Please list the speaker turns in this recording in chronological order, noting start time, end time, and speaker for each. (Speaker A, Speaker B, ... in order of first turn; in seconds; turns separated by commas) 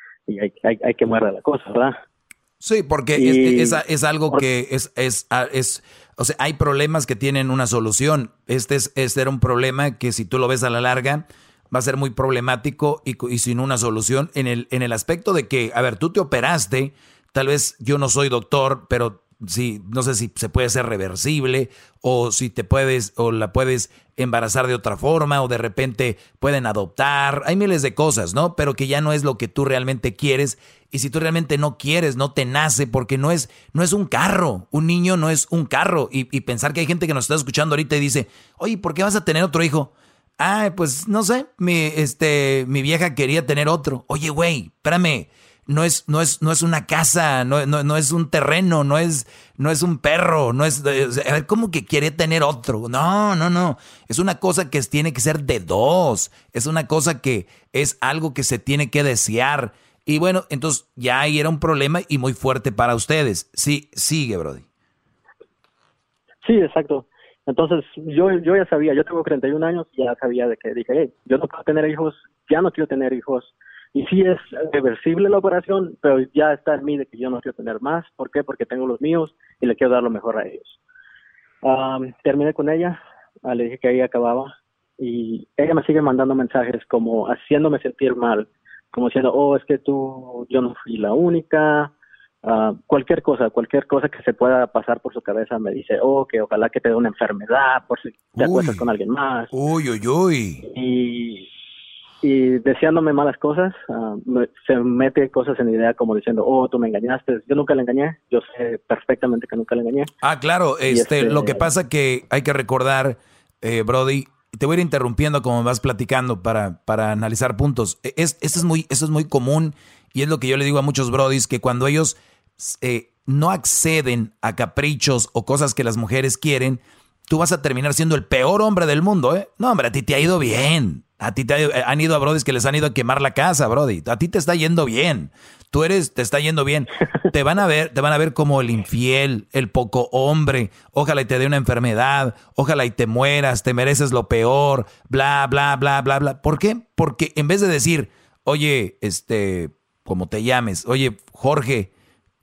Speaker A: 0.3-2.0, Speaker B: 2.6-64.7, Speaker A: 3.2-4.4, Speaker A: 66.4-80.8, Speaker A: 81.6-91.9, Speaker A: 92.5-99.5, Speaker B: 98.4-98.9, Speaker B: 99.5-100.7, Speaker A: 100.7-101.5, Speaker A: 102.2-110.1, Speaker B: 110.2-151.9, Speaker A: 110.9-111.7